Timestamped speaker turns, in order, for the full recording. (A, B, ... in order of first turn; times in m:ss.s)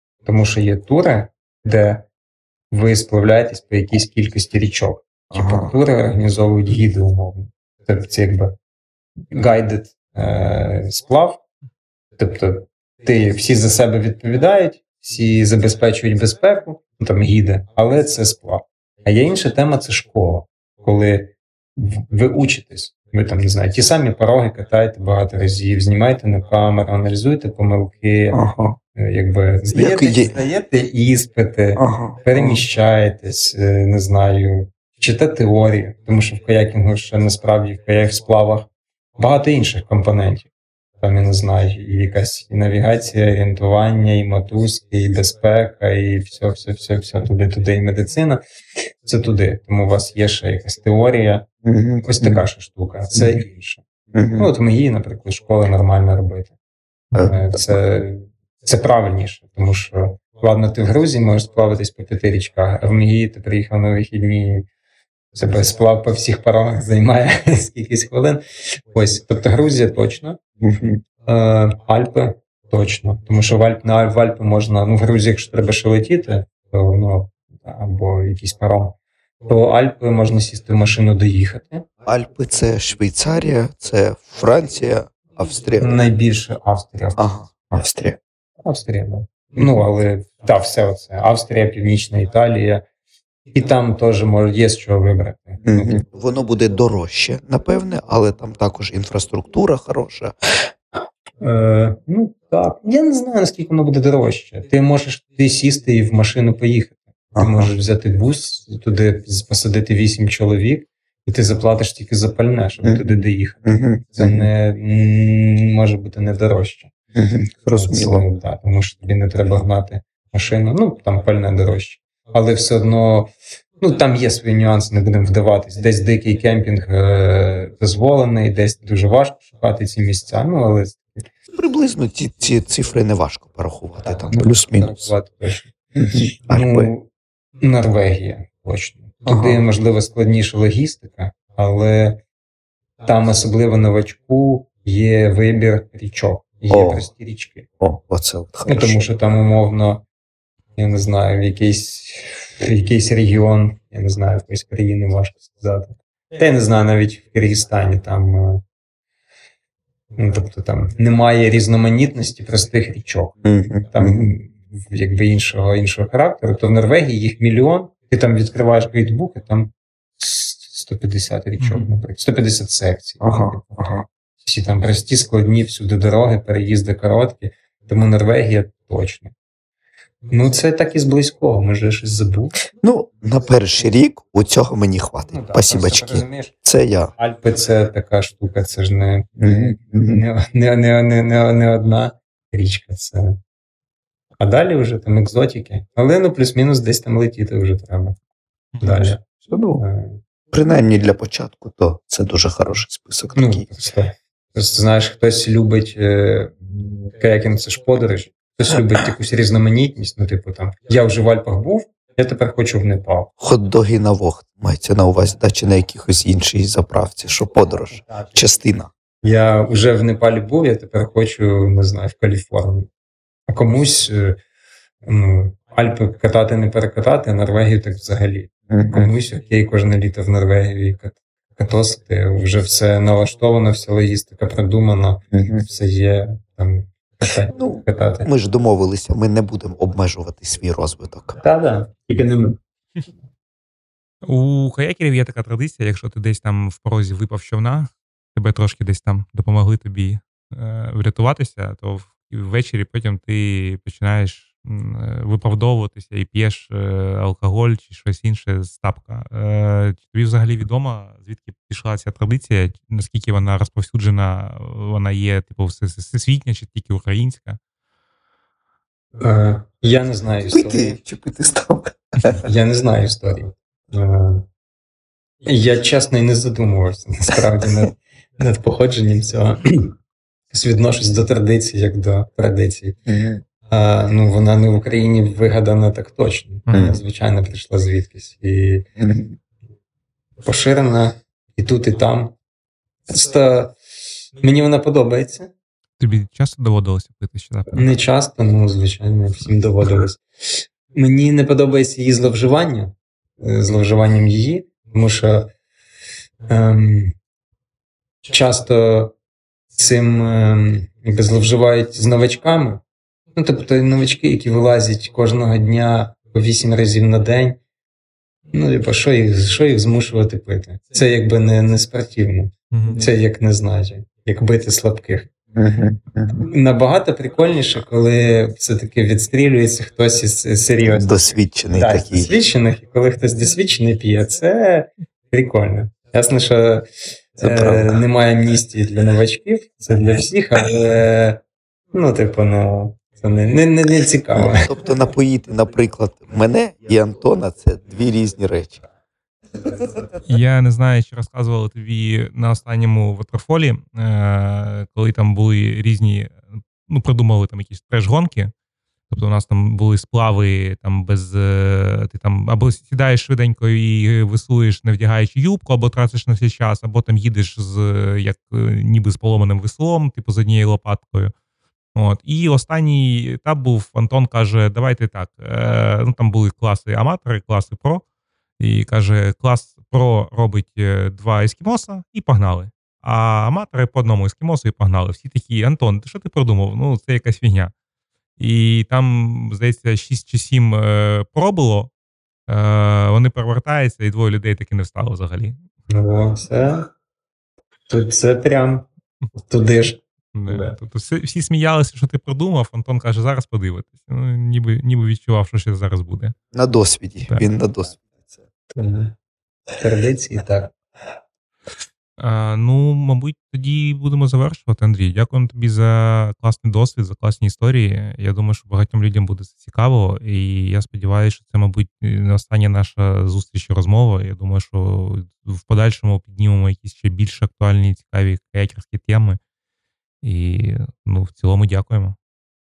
0:00.2-0:02.0 A
0:02.7-0:08.5 A
0:05.3-0:05.7 B
0:09.3-0:11.4 A
0:12.2-0:28.4 A
0:28.3-0:28.8 B
0:28.9-0:40.5 A
0:29.7-0:30.4 B
0:31.8-0:32.6 B
0:41.0-0:48.4 A
0:49.0-0:51.5 A
0:51.6-0:52.4 B
0:52.0-0:53.8 A
0:54.1-0:54.5 B
0:54.4-0:56.5 A
0:57.1-0:57.6 B
0:57.2-1:04.7 A
1:05.3-1:10.4 A
1:10.6-1:11.0 B
1:11.2-1:21.8 A
1:22.0-1:25.9 B
1:25.8-1:27.6 A
1:27.2-1:28.2 B
1:28.6-1:32.8 A
1:33.5-1:36.0 A
1:35.6-1:40.3 B
1:41.4-1:56.9 A
1:47.4-1:47.7 B
1:53.6-1:54.5 B
1:57.1-1:58.2 B
1:57.7-2:11.3 A
2:11.5-2:15.1 B
2:14.0-2:15.7 A
2:15.9-2:16.9 B
2:16.5-2:17.1 A
2:17.6-2:22.2 A
2:19.3-2:19.6 B
2:23.0-2:27.6 A
2:26.7-2:27.0 B
2:27.8-2:29.0 B
2:28.6-2:30.0 A
2:30.8-2:38.6 A
2:40.2-2:59.3 A
2:43.4-2:44.3 B
2:51.6-2:51.8 C
2:53.2-2:54.0 B
3:00.3-3:02.6 A
3:02.8-3:07.1 B
3:05.3-3:06.6 A
3:07.1-3:13.4 A
3:09.4-3:10.2 B
3:14.4-3:18.2 A
3:18.7-3:19.1 C
3:18.8-3:19.2 A
3:19.4-3:19.8 B
3:19.8-3:20.2 A
3:20.5-3:23.7 B
3:23.4-3:33.3 A
3:33.4-3:38.9 B
3:39.2-3:42.9 A
3:43.5-3:44.4 A
3:45.0-3:58.3 A
3:48.7-3:49.1 B
3:55.3-3:55.6 B
3:57.5-4:01.4 B
4:01.4-4:02.6 A
4:04.2-4:27.6 C
4:29.2-4:31.0 A
4:30.5-4:32.4 B
4:32.4-4:34.4 A
4:35.4-4:39.9 A
4:40.5-4:43.0 A
4:43.0-4:43.4 B
4:43.7-4:48.8 A
4:46.7-4:47.0 C
4:46.7-4:47.0 B
4:49.0-4:49.3 B
4:50.4-4:52.3 A
4:53.1-4:53.7 A
4:54.4-4:55.5 A
4:56.0-4:57.9 C
4:57.7-5:05.5 A
5:06.5-5:07.1 A
5:08.3-5:09.1 A
5:09.8-5:12.8 A
5:13.3-5:17.6 A
5:18.5-5:25.3 A
5:22.7-5:23.0 C
5:25.5-5:26.4 B
5:26.3-5:41.4 A
5:30.8-5:32.3 B
5:37.4-5:38.0 B
5:41.9-5:44.7 A
5:44.3-5:48.8 B
5:50.2-5:58.5 C
5:59.1-6:11.3 C
6:11.9-6:18.0 C
6:18.6-6:27.7 C
6:28.4-6:31.9 C
6:32.5-6:35.6 C
6:35.9-6:36.9 A
6:37.9-6:38.9 A
6:39.4-6:40.8 A
6:40.3-6:46.3 C
6:46.5-6:48.0 B
6:48.7-6:49.1 A
6:49.7-6:50.7 A
6:52.2-7:09.4 C
7:10.2-7:12.2 C